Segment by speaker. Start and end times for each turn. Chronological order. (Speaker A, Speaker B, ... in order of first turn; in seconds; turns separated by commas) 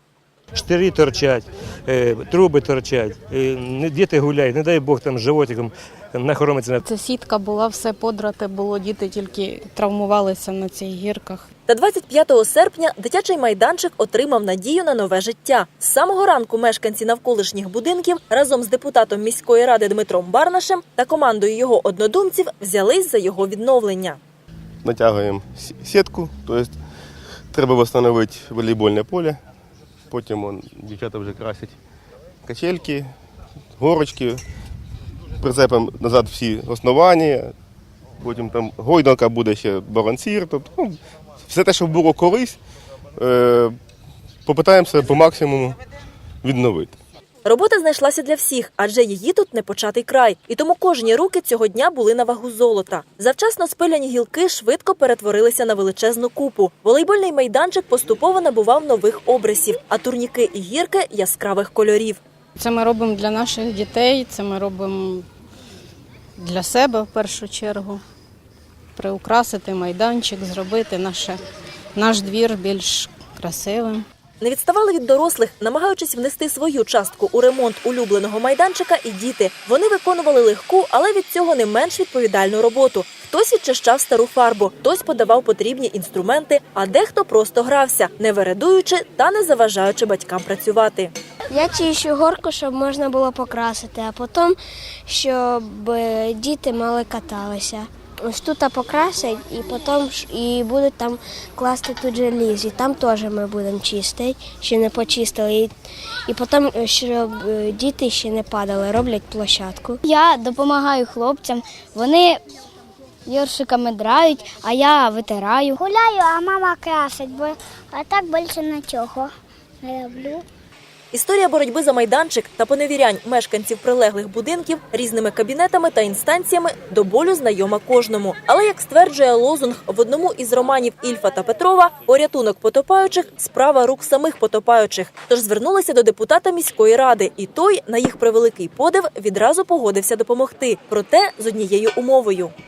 Speaker A: 0.6-6.8, Speaker B: 6.8-11.5, Speaker C: 11.7-24.2, Speaker D: 24.8-26.7, Speaker D: 27.5-29.4, Speaker D: 30.1-31.8, Speaker D: 32.5-33.1, Speaker D: 33.8-34.4, Speaker D: 35.4-37.5, Speaker D: 38.2-41.0, Speaker D: 41.5-42.6, Speaker D: 43.2-43.8, Speaker D: 44.5-45.8, Speaker D: 46.4-47.0, Speaker C: 47.4-62.2, Speaker B: 62.6-65.2, Speaker B: 66.4-68.0, Speaker B: 69.0-71.4, Speaker B: 71.9-74.0, Speaker C: 74.4-91.1, Speaker E: 91.5-94.5, Speaker E: 95.1-105.7, Speaker E: 106.3-110.0, Speaker F: 110.0-112.4, Speaker F: 113.3-115.8, Speaker G: 115.8-120.5, Speaker C: 121.1-142.5